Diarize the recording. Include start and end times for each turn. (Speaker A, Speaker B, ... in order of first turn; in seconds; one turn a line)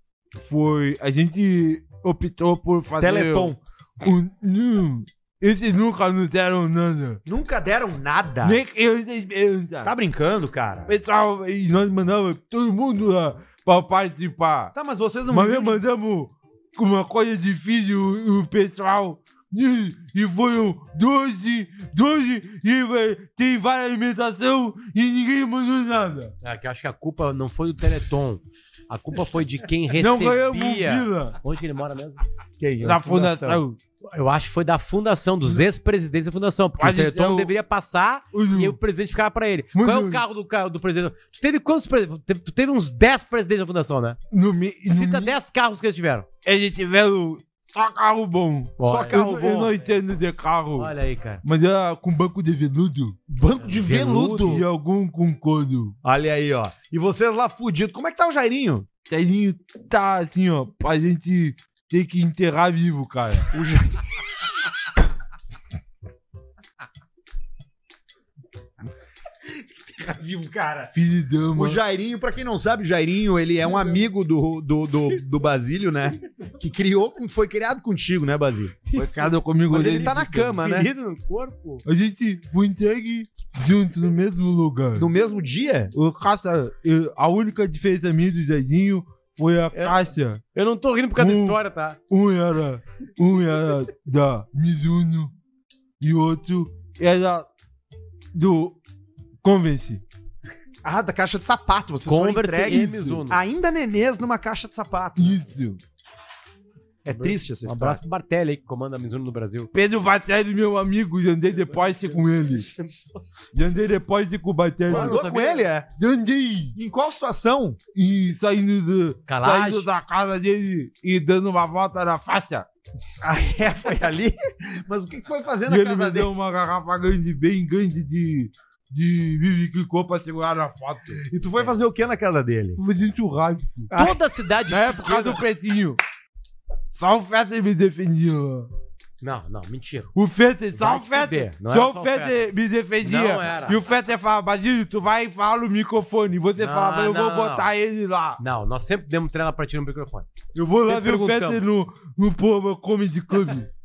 Speaker A: 0.4-7.2
Speaker B: 3.0-3.6
Speaker B: 7.2-8.6
Speaker A: 8.4-9.9
Speaker B: 9.8-10.9
Speaker A: 10.9-14.7
Speaker B: 14.7-15.8
Speaker A: 15.3-26.3
Speaker C: 26.4-32.2
Speaker A: 29.9-31.4
Speaker B: 32.6-33.6
Speaker A: 32.8-33.8
Speaker C: 34.1-44.2
Speaker A: 36.8-37.5
Speaker A: 38.3-38.8
Speaker A: 39.7-40.2
Speaker A: 44.3-45.3
Speaker C: 44.9-46.3
Speaker A: 46.4-50.9
Speaker C: 48.8-49.2
Speaker B: 48.8-49.8
Speaker C: 50.8-51.4
Speaker A: 51.4-53.2
Speaker B: 53.3-54.6
Speaker C: 53.6-54.4
Speaker A: 54.2-56.0
Speaker B: 56.0-58.9
Speaker A: 59.1-63.5
Speaker B: 63.5-64.0
Speaker B: 69.5-70.9
Speaker A: 70.9-71.8
Speaker B: 71.5-78.8
Speaker C: 78.9-81.8
Speaker A: 79.0-80.2
Speaker B: 79.7-80.9
Speaker A: 81.8-85.1
Speaker B: 85.0-85.9
Speaker A: 86.0-90.4
Speaker C: 89.7-90.0
Speaker C: 90.5-92.0
Speaker A: 91.2-91.6
Speaker A: 92.1-95.3
Speaker A: 96.0-97.5
Speaker A: 98.3-98.8
Speaker A: 99.4-100.0
Speaker B: 100.8-105.5
Speaker C: 102.1-103.4
Speaker A: 105.2-105.8
Speaker B: 107.0-108.0
Speaker C: 107.1-109.7
Speaker A: 109.7-112.7
Speaker C: 111.7-113.1
Speaker A: 113.5-115.2
Speaker B: 114.9-115.9
Speaker C: 114.9-115.7
Speaker A: 115.9-116.8
Speaker B: 116.8-117.8
Speaker A: 118.0-122.7
Speaker C: 119.3-119.9
Speaker B: 123.2-126.3
Speaker A: 125.7-131.2
Speaker B: 131.3-132.8
Speaker A: 132.8-133.9
Speaker C: 133.9-135.3
Speaker B: 134.7-135.4
Speaker A: 134.7-136.0
Speaker A: 136.9-138.7
Speaker C: 139.2-140.1
Speaker A: 140.2-148.4
Speaker C: 140.8-142.5
Speaker C: 143.0-143.8
Speaker C: 146.6-147.7
Speaker C: 148.4-150.3
Speaker A: 150.5-153.7
Speaker C: 150.9-151.6